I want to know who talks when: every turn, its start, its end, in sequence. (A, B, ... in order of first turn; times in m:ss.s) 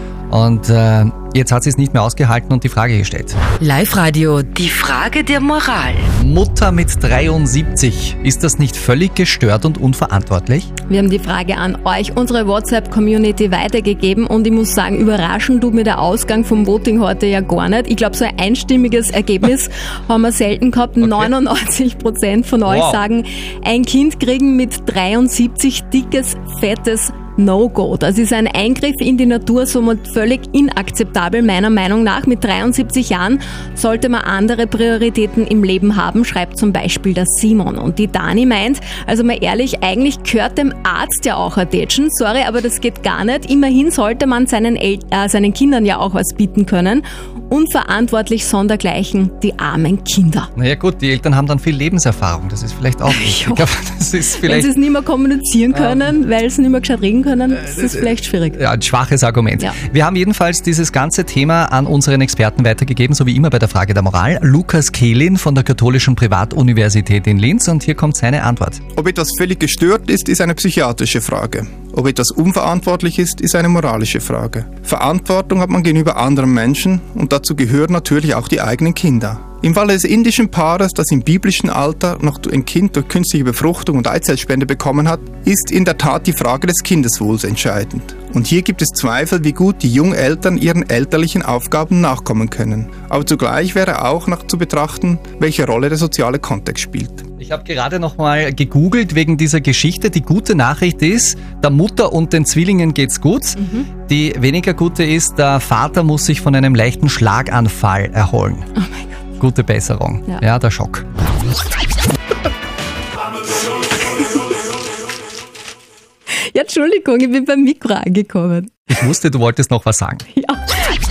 0:00.3-0:03.4 A
0:03.6-0:06.1 B
0:06.2-0:10.7 A
0:10.8-0:50.5 C
0:21.0-0:21.3 A
0:22.7-0:23.0 A
0:50.6-0:54.7 A
0:53.0-0:53.7 C
0:54.4-0:58.6 C
0:55.7-0:56.1 A
0:57.5-1:08.8 A
1:08.9-1:37.2 D
1:37.4-1:48.6 A
1:43.6-1:43.9 C
1:48.8-1:49.1 C
1:49.4-1:51.0 A
1:56.3-1:58.8 C
1:58.9-2:00.2 A
2:00.3-2:01.0 C